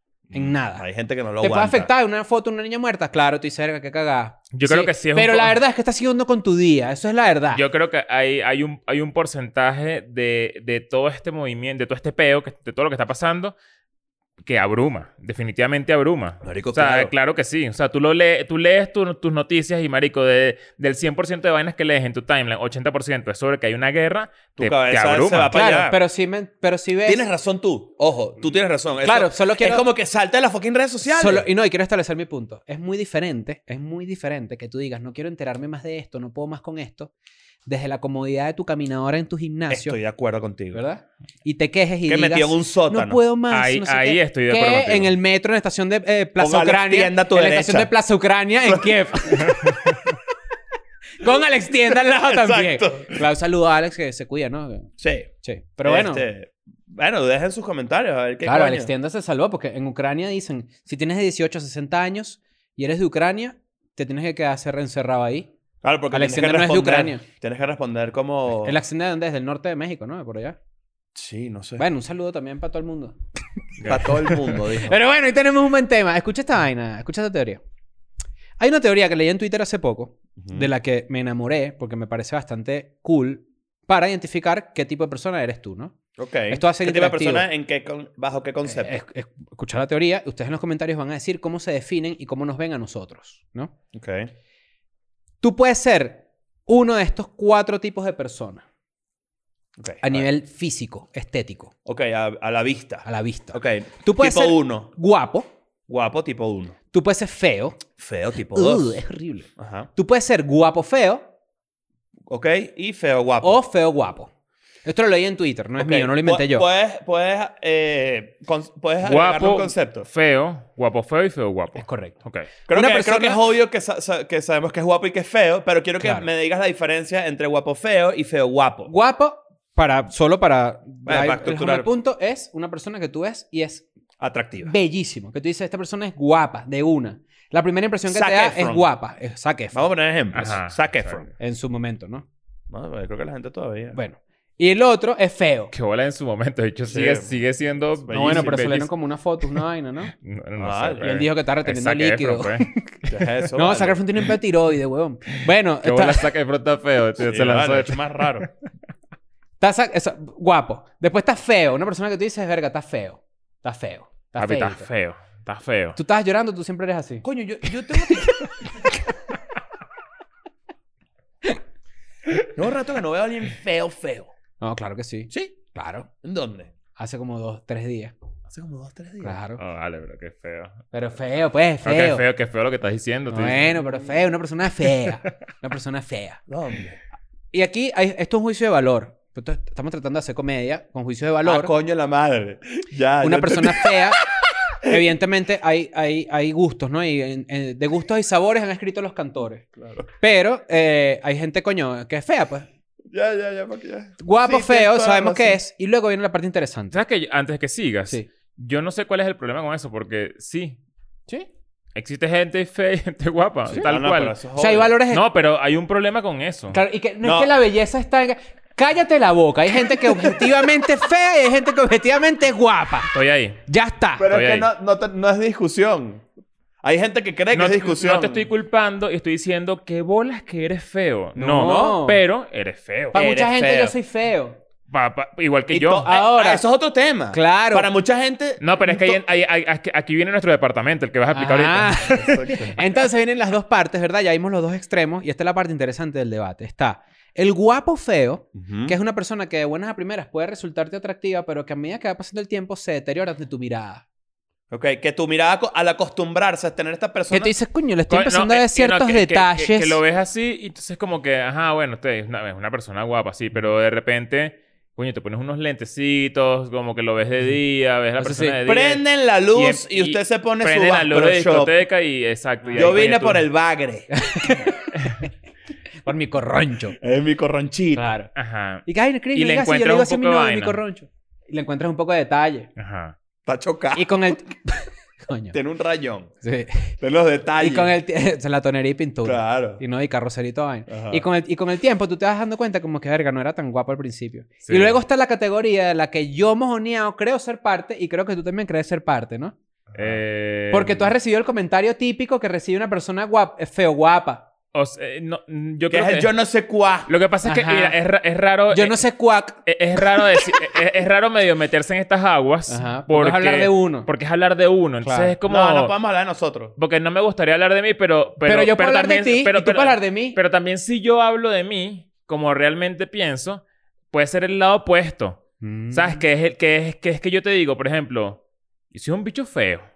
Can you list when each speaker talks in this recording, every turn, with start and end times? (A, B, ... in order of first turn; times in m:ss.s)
0:00.3-0:00.8 A
0:00.3-0:01.9 B
0:01.4-0:07.6 A
0:04.5-0:05.6 C
0:07.5-0:13.6 C
0:14.4-0:25.6 C
0:16.4-0:17.1 B
0:24.6-0:26.0 B
0:25.5-0:27.2 A
0:27.0-0:31.5 B
0:29.0-0:29.9 A
0:31.0-0:37.1 A
0:37.7-0:40.0 A
0:39.7-0:40.8 B
0:40.7-0:49.8 A
0:42.1-0:43.2 B
0:43.5-0:45.1 C
0:46.4-0:47.9 B
0:48.6-0:49.5 B
0:51.2-0:54.9 A
0:51.8-0:53.2 B
0:55.0-0:55.3 B
0:55.4-0:56.2 A
0:55.8-0:58.9 B
0:58.4-1:05.5 A
1:05.8-1:08.8 B
1:06.1-1:07.2 A
1:08.6-1:10.6 A
1:11.2-1:11.9 B
1:11.8-1:13.2 A
1:13.8-1:14.1 C
1:13.8-1:15.0 B
1:14.7-1:17.6 A
1:18.6-1:26.0 A
1:20.4-1:20.7 B
1:26.2-1:29.0 B
1:26.5-1:27.5 A
1:28.7-1:33.7 A
1:33.9-1:34.3 B
1:35.4-1:38.6 A
1:39.8-1:40.3 B
1:40.0-1:41.7 A
1:41.9-1:44.9 B
1:43.0-1:45.5 A
1:45.9-1:46.8 B
1:46.9-1:47.8 A
1:48.0-1:49.0 B
1:48.5-1:51.3 A
1:49.6-1:49.9 B
1:52.3-1:53.6 B
1:53.4-1:54.3 A
1:54.8-1:56.7 A
1:55.8-2:00.1 B
1:59.0-2:02.5 C
2:01.8-2:02.2 A
2:02.7-2:03.4 A
2:02.7-2:08.9 B
2:06.0-2:06.3 A
2:08.9-2:13.9 A
2:11.0-2:11.9 B
2:14.2-2:14.7 B
2:14.6-2:19.9 A
2:18.1-2:18.9 B
2:19.7-2:21.3 B
2:20.3-2:21.3 C
2:21.4-2:22.3 A
2:22.7-2:24.0 B
2:23.9-2:25.7 A
2:25.7-2:28.9 C
2:26.9-2:27.4 B
2:28.0-2:28.6 B
2:28.1-2:30.1 A
2:30.1-2:32.7 C
2:30.6-2:31.1 B
2:31.0-2:36.3 A
2:33.1-2:34.0 B
2:35.8-2:38.5 C
2:37.2-2:38.5 B
2:39.6-2:44.9 A
2:44.4-2:46.0 C
2:46.0-2:47.2 A
2:47.2-2:48.4 B
2:47.9-2:48.5 A
2:52.6-2:54.3 B
2:54.6-2:56.1 A
2:55.3-2:55.6 B
2:56.2-2:56.7 B
2:57.0-2:58.1 A
2:58.5-2:59.4 B
2:59.2-2:59.6 A
2:59.6-3:00.8 C
3:00.9-3:02.2 A
3:01.8-3:03.7 C
3:03.3-3:06.4 A
3:06.5-3:07.0 B
3:07.5-3:11.7 A
3:11.4-3:14.3 B
3:13.2-3:14.2 A
3:14.8-3:19.7 A
3:19.8-3:20.1 B
3:20.2-3:22.7 A
3:23.1-3:25.6 B
3:24.2-3:27.0 A
3:26.9-3:30.8 C
3:32.0-3:34.4 C
3:33.7-3:34.9 B
3:34.6-3:35.2 A
3:35.1-3:36.8 C
3:36.7-3:43.1 A
3:37.2-3:37.5 B
3:40.0-3:40.5 B
3:43.1-3:43.6 C
3:43.7-3:44.3 A
3:44.2-3:46.2 B
3:44.3-3:44.7 C
3:46.8-3:48.5 B
3:47.5-3:53.2 C
3:51.4-3:52.2 A
3:53.1-3:54.0 B
3:53.1-3:54.6 A
3:54.9-3:56.1 C
3:55.7-3:59.2 B
3:56.1-3:56.6 A
3:57.3-3:57.9 A
3:58.6-4:02.6 C
4:01.3-4:14.0 A
4:02.2-4:02.8 B
4:08.6-4:09.0 B
4:14.7-4:17.5 B
4:17.3-4:20.0 A
4:18.1-4:33.4 C
4:28.2-4:28.6 A
4:28.7-4:31.8 B
4:32.6-4:33.0 A
4:32.8-4:34.1 B
4:34.1-4:35.3 A
4:36.0-4:37.0 A
4:37.0-4:38.0 B
4:38.0-4:38.3 A
4:38.4-4:40.8 C
4:38.9-4:42.7 A
4:42.8-4:43.2 C
4:43.5-4:44.4 B
4:44.0-4:45.6 A
4:45.5-4:46.3 B
4:46.4-4:46.9 A
4:47.0-4:47.9 B
4:47.6-4:59.6 A
4:49.2-4:49.8 B
4:50.9-4:51.2 B
4:54.6-4:55.0 C
4:59.9-5:00.2 B
4:59.9-5:01.1 C
5:00.7-5:04.5 A
5:04.7-5:06.3 C
5:05.9-5:07.1 B
5:07.1-5:09.0 C
5:07.4-5:08.0 A
5:08.7-5:09.6 A
5:09.7-5:16.0 C
5:12.7-5:14.1 A
5:15.0-5:15.3 A
5:15.5-5:16.8 B
5:16.8-5:28.4 C
5:18.4-5:20.4 A
5:25.6-5:26.2 A
5:28.9-5:29.9 C